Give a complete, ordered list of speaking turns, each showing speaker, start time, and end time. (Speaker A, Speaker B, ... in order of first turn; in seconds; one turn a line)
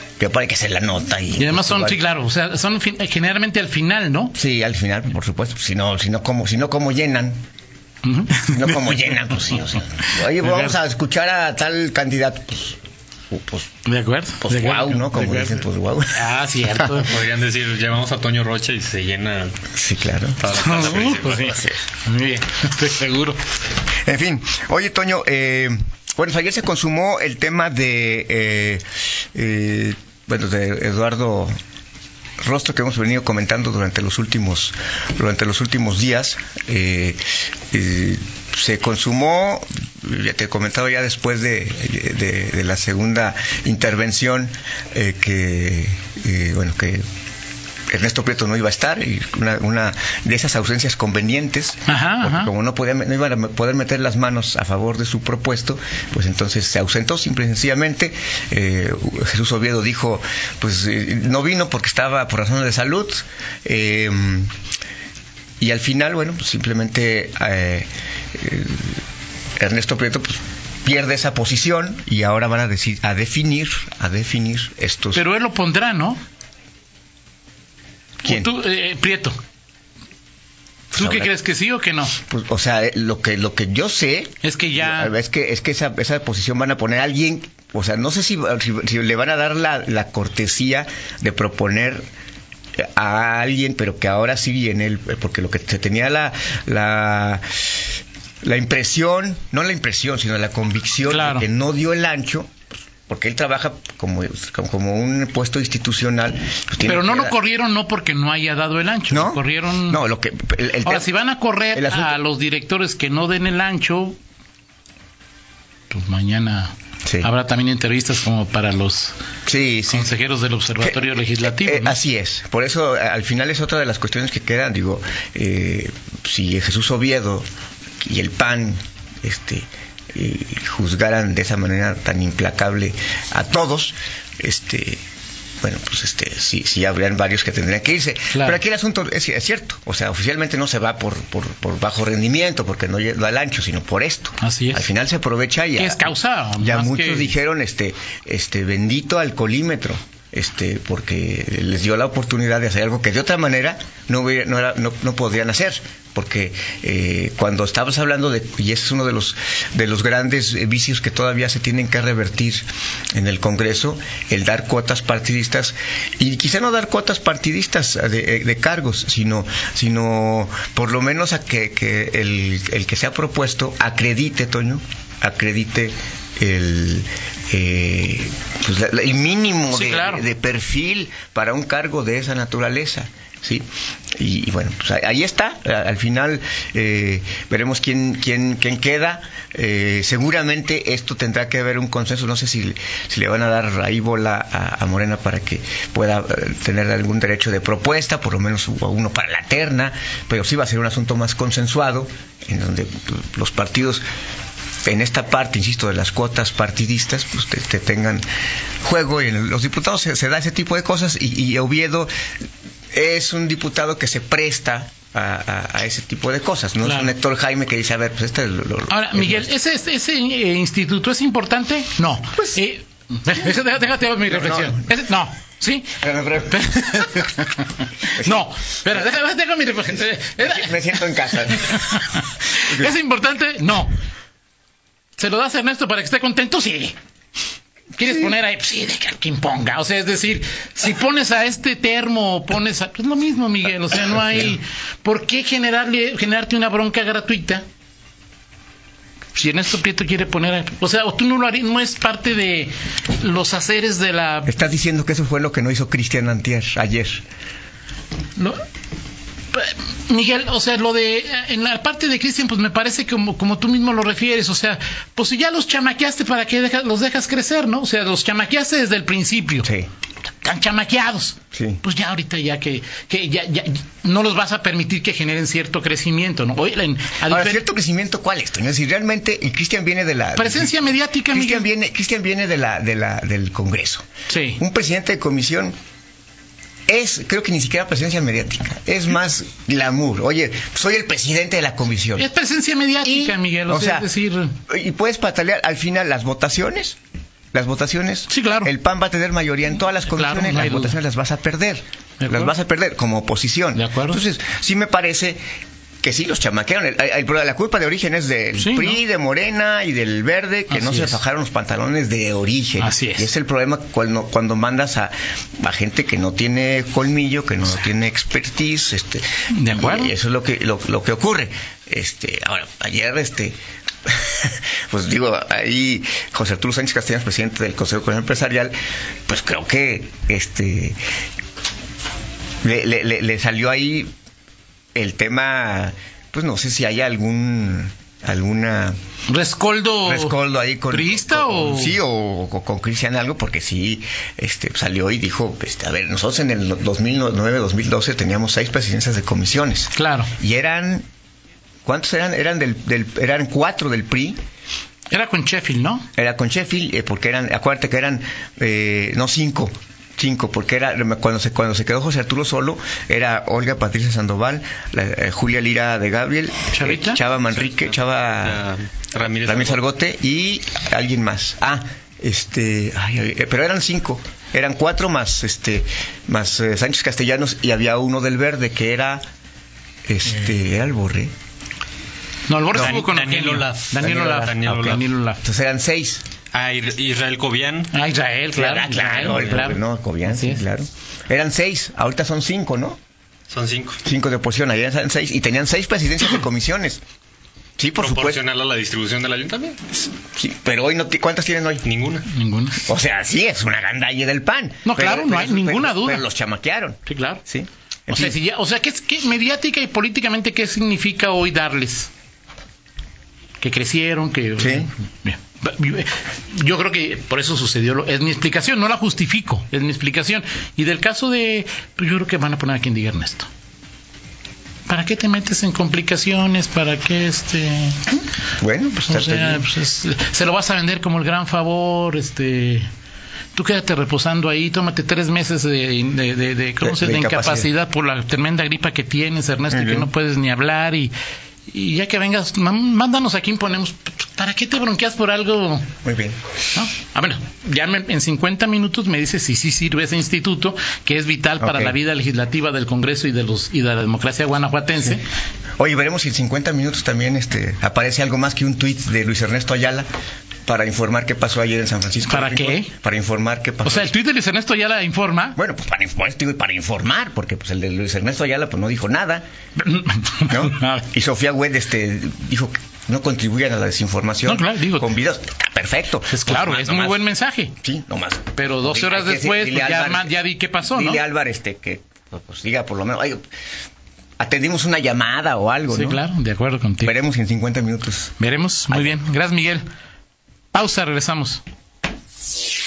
Speaker A: 0.2-2.0
Speaker B: 1.4-4.3
Speaker A: 4.3-7.4
Speaker B: 8.0-9.1
Speaker A: 8.5-12.8
Speaker B: 10.4-10.7
Speaker A: 13.3-13.7
Speaker B: 13.8-17.2
Speaker A: 14.4-16.9
Speaker C: 17.0-19.6
Speaker A: 19.7-20.4
Speaker C: 20.4-21.6
Speaker B: 20.5-23.4
Speaker A: 24.1-28.8
Speaker A: 29.3-31.6
Speaker A: 32.4-47.0
Speaker A: 47.9-64.5
Speaker B: 51.9-52.5
Speaker A: 65.6-69.0
Speaker A: 69.6-75.2
Speaker B: 75.1-76.2
Speaker B: 78.2-79.4
Speaker A: 80.9-81.3
Speaker B: 80.9-82.2
Speaker A: 82.3-92.0
Speaker B: 84.4-85.1
Speaker A: 92.8-97.7
Speaker A: 98.4-102.5
Speaker B: 101.1-101.5
Speaker A: 103.1-107.4
Speaker B: 106.8-110.0
Speaker A: 109.1-111.1
Speaker B: 110.8-114.2
Speaker A: 111.7-112.2
Speaker B: 115.9-119.2
Speaker A: 119.5-120.1
Speaker B: 119.9-122.0
Speaker A: 120.8-127.5
Speaker A: 128.0-135.0
Speaker A: 135.6-204.0
Speaker B: 138.3-138.6
Speaker B: 144.4-144.9
Speaker B: 145.8-147.3
Speaker B: 179.7-180.3
Speaker A: 204.8-208.2
Speaker A: 208.8-212.1
Speaker A: 212.9-219.5
Speaker B: 216.8-217.1
Speaker B: 218.9-233.9
Speaker A: 222.3-222.6
Speaker A: 224.3-224.9
Speaker A: 226.0-226.7
Speaker A: 228.1-229.1
Speaker A: 230.2-232.0
Speaker A: 232.7-232.9
Speaker B: 235.2-237.0
Speaker B: 237.9-247.6
Speaker B: 249.3-254.6
Speaker A: 254.5-257.2
Speaker B: 258.4-258.6
Speaker B: 259.5-269.7
Speaker A: 269.6-269.9
Speaker B: 270.4-277.6
Speaker A: 271.5-271.8
Speaker A: 277.3-284.1
Speaker B: 280.4-281.7
Speaker B: 284.3-284.6
Speaker A: 284.6-285.7
Speaker A: 286.9-292.3
Speaker B: 292.2-294.5
Speaker A: 293.0-294.1
Speaker A: 294.7-297.0
Speaker A: 297.5-305.4
Speaker B: 298.3-298.7
Speaker B: 300.1-301.0
Speaker B: 302.2-302.5
Speaker B: 303.8-304.2
Speaker A: 306.0-328.8
Speaker B: 308.6-309.0
Speaker B: 310.7-311.2
Speaker B: 312.8-313.3
Speaker B: 319.5-320.1
Speaker A: 329.3-331.0
Speaker A: 332.6-334.1
Speaker A: 334.9-338.9
Speaker B: 339.3-340.4
Speaker A: 340.1-351.1
Speaker B: 340.9-342.0
Speaker B: 349.9-350.3
Speaker A: 351.9-354.4
Speaker B: 355.1-356.1
Speaker A: 356.2-368.6
Speaker B: 366.7-367.2
Speaker C: 367.6-369.8
Speaker A: 369.4-379.2
Speaker A: 380.1-381.3
Speaker B: 382.5-385.4
Speaker A: 382.7-383.0
Speaker C: 382.7-385.0
Speaker A: 384.0-386.2
Speaker C: 386.5-387.9
Speaker B: 387.9-390.6
Speaker A: 388.5-393.0
Speaker C: 389.2-389.7
Speaker C: 393.5-394.0
Speaker A: 394.0-397.0
Speaker A: 397.8-398.4
Speaker C: 398.0-399.8
Speaker A: 399.9-401.9
Speaker C: 401.8-402.3
Speaker B: 402.3-402.9
Speaker A: 402.9-408.4
Speaker B: 404.9-406.2
Speaker B: 407.1-407.4
Speaker B: 408.1-412.1
Speaker B: 413.6-423.5
Speaker A: 414.6-414.9
Speaker B: 424.9-428.0
Speaker A: 428.6-429.7
Speaker B: 429.1-432.9
Speaker B: 433.5-441.1
Speaker A: 436.8-437.7
Speaker A: 439.7-440.1
Speaker B: 441.7-445.9
Speaker A: 446.0-446.4
Speaker B: 446.7-455.2
Speaker A: 451.6-452.0
Speaker A: 455.8-460.1
Speaker A: 460.7-464.1
Speaker B: 462.3-462.9
Speaker B: 463.8-465.6
Speaker A: 465.6-469.4
Speaker B: 469.8-471.1
Speaker A: 470.5-477.2
Speaker B: 474.5-475.1
Speaker B: 476.3-477.8
Speaker A: 477.8-480.4
Speaker B: 478.6-481.2
Speaker A: 480.9-483.4
Speaker A: 484.4-486.2
Speaker B: 485.9-487.2
Speaker A: 487.0-488.4
Speaker B: 488.4-489.9
Speaker A: 488.9-489.2
Speaker B: 490.7-491.6